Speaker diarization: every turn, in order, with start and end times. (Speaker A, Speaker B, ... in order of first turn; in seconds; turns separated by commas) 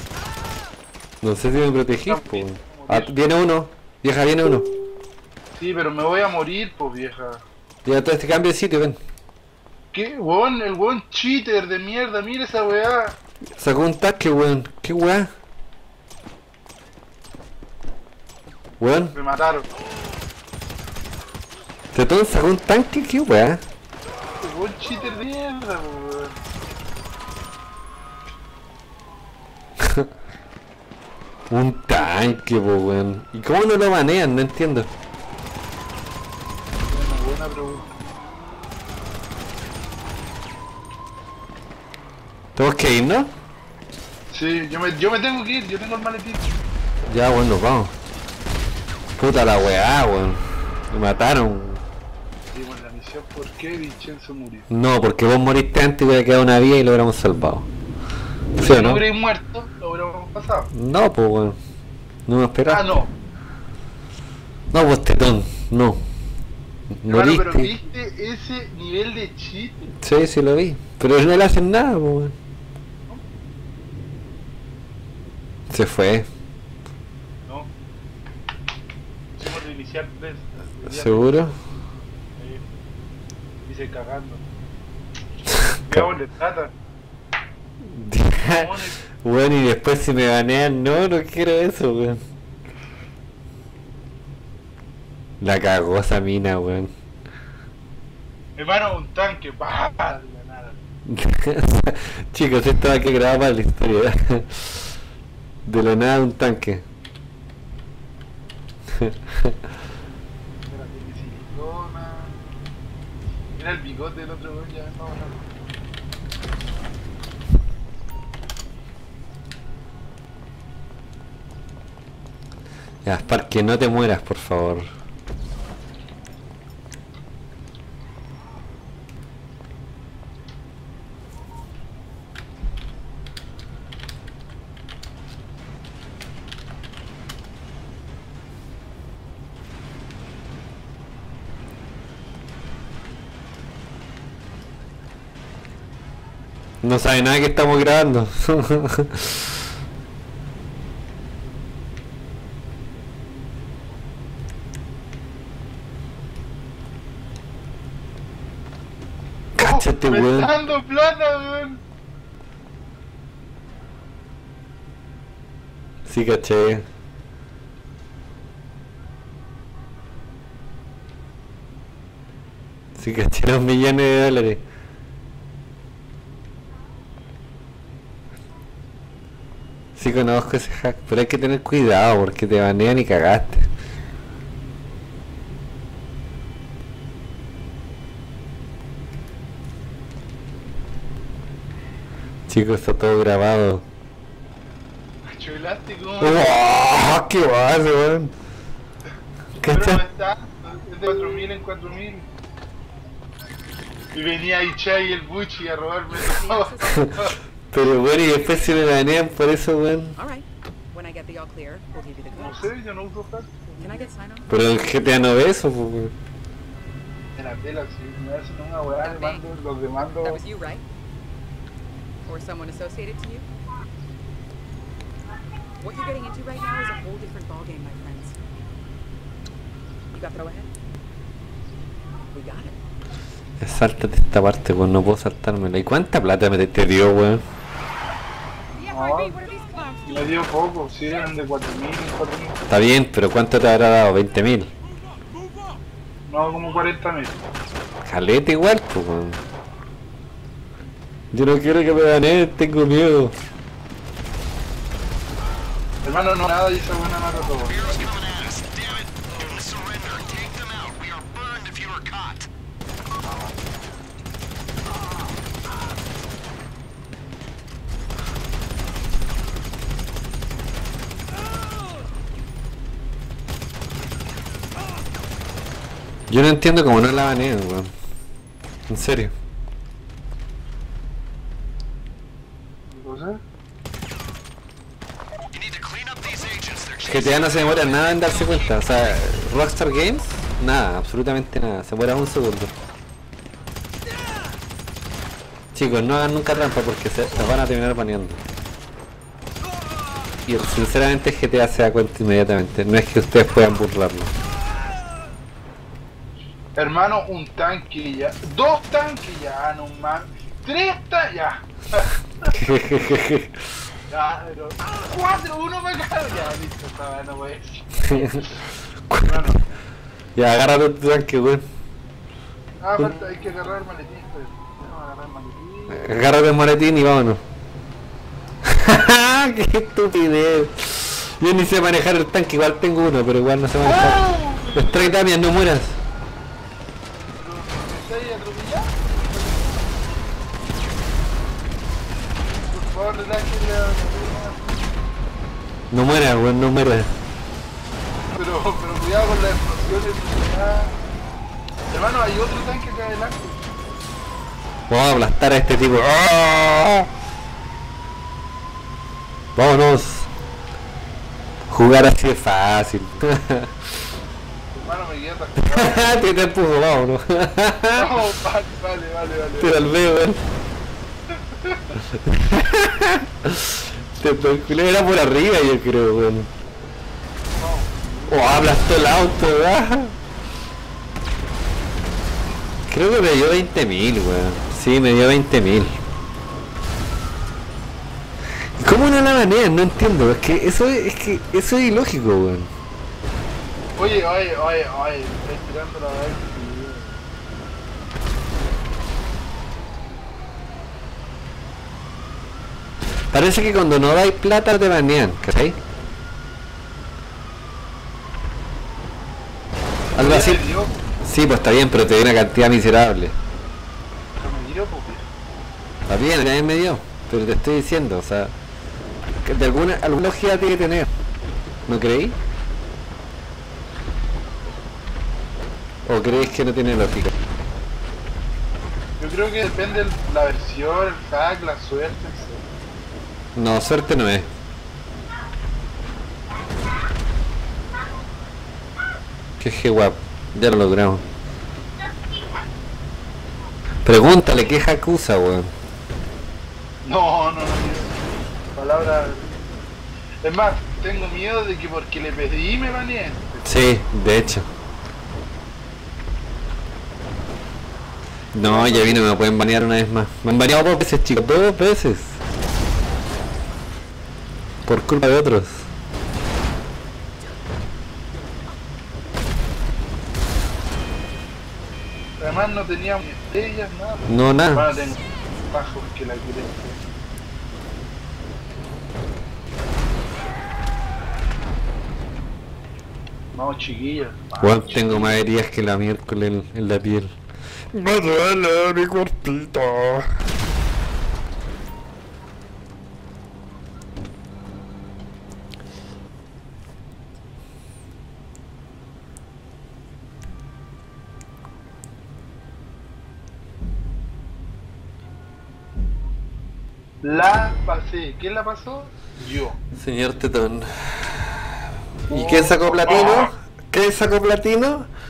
Speaker A: 1.2-4.7, Speaker B: 2.1-3.1, Speaker B: 5.5-7.4, Speaker A: 7.8-9.0, Speaker B: 9.9-13.2, Speaker A: 13.6-15.3, Speaker A: 18.8-19.1, Speaker B: 19.1-19.7, Speaker A: 21.9-23.6, Speaker B: 24.4-26.4, Speaker A: 29.8-30.1, Speaker A: 31.5-34.9, Speaker B: 36.9-38.0, Speaker A: 42.6-43.3, Speaker B: 44.3-46.5, Speaker A: 47.1-47.9, Speaker A: 49.2-51.8, Speaker B: 52.5-54.7, Speaker A: 54.7-57.7, Speaker A: 58.6-59.0, Speaker B: 58.6-60.7, Speaker A: 60.7-61.6, Speaker A: 62.3-63.0, Speaker B: 62.7-63.1, Speaker A: 64.7-66.0, Speaker A: 67.0-67.7, Speaker B: 67.1-69.9, Speaker A: 70.0-72.3, Speaker A: 75.7-76.3, Speaker B: 77.5-77.7, Speaker B: 79.3-81.5, Speaker A: 80.9-81.6, Speaker B: 82.4-82.7, Speaker B: 83.6-84.5, Speaker B: 85.8-86.7, Speaker A: 87.8-92.2, Speaker B: 88.5-89.0, Speaker A: 95.4-96.9, Speaker B: 98.6-100.8, Speaker A: 101.1-104.8, Speaker A: 105.7-106.8, Speaker A: 109.0-109.6, Speaker B: 110.7-112.5, Speaker B: 113.6-115.7, Speaker A: 123.0-124.9, Speaker A: 146.8-149.5, Speaker A: 159.6-160.5, Speaker B: 159.6-161.8, Speaker A: 166.1-166.8, Speaker A: 172.9-174.6, Speaker A: 180.0-183.7, Speaker A: 192.5-193.8, Speaker B: 195.3-197.3, Speaker A: 196.2-198.3, Speaker A: 199.6-200.0, Speaker B: 199.6-202.3, Speaker B: 204.1-207.4, Speaker C: 206.2-207.1, Speaker A: 207.7-210.2, Speaker C: 208.0-208.9, Speaker C: 210.2-212.7, Speaker B: 212.3-214.1, Speaker C: 213.8-214.5, Speaker A: 214.5-216.1, Speaker B: 217.3-220.4, Speaker C: 219.0-219.4, Speaker C: 220.2-220.8, Speaker C: 222.3-223.5, Speaker C: 225.8-228.3, Speaker C: 230.1-230.7, Speaker C: 232.3-232.8, Speaker A: 233.6-237.4, Speaker B: 238.8-242.6, Speaker A: 242.7-244.7, Speaker B: 246.3-247.4, Speaker A: 248.1-249.4, Speaker A: 251.3-253.3, Speaker B: 256.0-258.0, Speaker D: 258.0-262.5, Speaker A: 276.3-277.9, Speaker A: 278.9-279.3, Speaker B: 282.9-283.4, Speaker D: 285.6-287.0, Speaker A: 287.0-292.7, Speaker A: 295.7-298.4, Speaker A: 300.5-304.3, Speaker B: 306.8-312.6, Speaker A: 312.5-313.6, Speaker B: 314.1-318.6, Speaker A: 318.1-318.5, Speaker A: 319.1-319.6, Speaker B: 319.2-319.6, Speaker A: 320.4-321.6, Speaker B: 322.8-326.1, Speaker A: 325.9-327.4, Speaker A: 328.6-336.0, Speaker B: 333.8-335.2, Speaker B: 337.3-340.0, Speaker B: 342.6-344.8, Speaker A: 345.9-347.1, Speaker B: 348.3-350.9, Speaker B: 351.9-353.6, Speaker A: 354.9-357.1, Speaker A: 359.6-360.3, Speaker A: 361.7-363.7, Speaker B: 364.7-366.2, Speaker A: 365.7-368.1, Speaker B: 367.9-369.8, Speaker A: 369.6-370.4, Speaker B: 371.4-372.0, Speaker A: 372.1-376.5, Speaker B: 377.5-378.7, Speaker A: 378.3-380.2, Speaker A: 382.9-386.0, Speaker A: 388.8-392.7, Speaker B: 394.0-397.2, Speaker A: 403.3-405.8, Speaker A: 410.1-410.6, Speaker B: 410.1-411.0, Speaker A: 411.2-413.4, Speaker B: 414.4-415.3, Speaker A: 416.1-418.6, Speaker A: 419.4-421.1, Speaker A: 421.9-422.4, Speaker A: 426.1-427.3, Speaker B: 429.2-432.7, Speaker A: 433.6-434.5, Speaker A: 439.6-441.2, Speaker A: 444.1-445.7, Speaker B: 447.1-449.6, Speaker B: 450.4-453.7, Speaker A: 453.6-454.7, Speaker A: 458.5-462.4, Speaker B: 458.6-459.2, Speaker A: 464.9-465.9, Speaker B: 472.4-477.0, Speaker A: 474.3-474.9, Speaker B: 483.5-485.4, Speaker A: 484.6-487.3, Speaker A: 487.9-490.4, Speaker B: 507.2-509.8, Speaker A: 510.0-511.8, Speaker A: 512.3-515.1, Speaker B: 512.3-513.5